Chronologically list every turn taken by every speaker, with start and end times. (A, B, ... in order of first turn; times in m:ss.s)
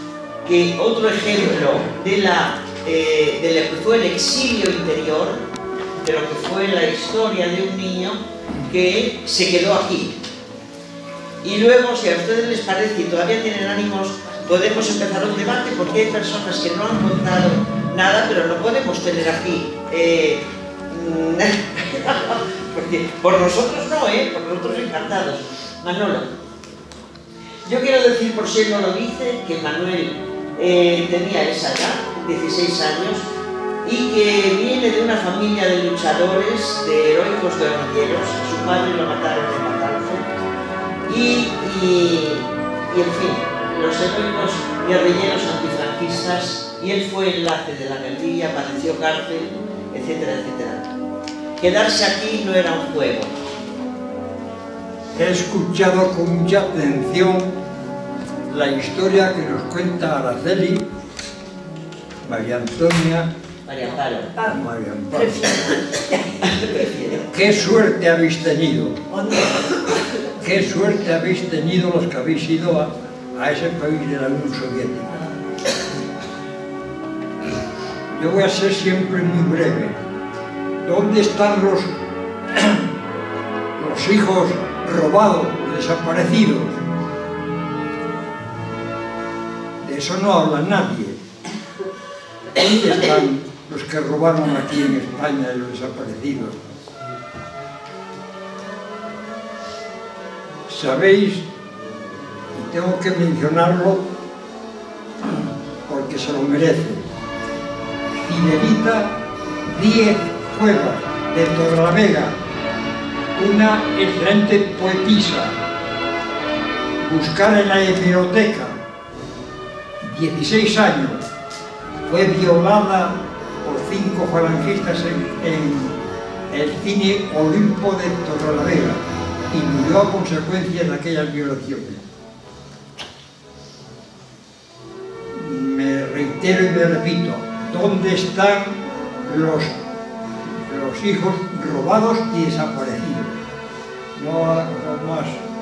0:00.4-0:05.4 A
0:06.0-0:10.2 A
0:11.4-0:26.3 A
0:27.6-0:33.3 A
0:33.8-0:40.3 A
0:41.0-0:50.9 A
0:51.6-0:53.3 A
0:55.2-0:57.5 B
0:58.5-1:00.8 B
1:02.2-1:03.3 B
1:03.6-1:04.4 A
1:04.4-1:05.7 B
1:06.4-1:07.2 A
1:07.1-1:09.5 B
1:10.2-1:15.3 B
1:18.1-1:20.0 B
1:20.8-1:21.9 B
1:22.5-1:22.8 B
1:23.8-1:26.8 B
1:29.8-1:31.2 B
1:32.5-1:36.6 B
1:40.7-1:41.4 B
1:42.5-1:44.0 B
1:45.2-1:47.1 B
1:48.1-1:49.1 B
1:49.7-1:52.4 B
1:53.3-1:55.5 B
1:57.0-1:58.7 B
2:00.0-2:01.2 B
2:02.0-2:06.0 B
2:06.5-2:12.0 B
2:15.3-2:19.7 B
2:20.5-2:23.3 B
2:24.1-2:25.4 B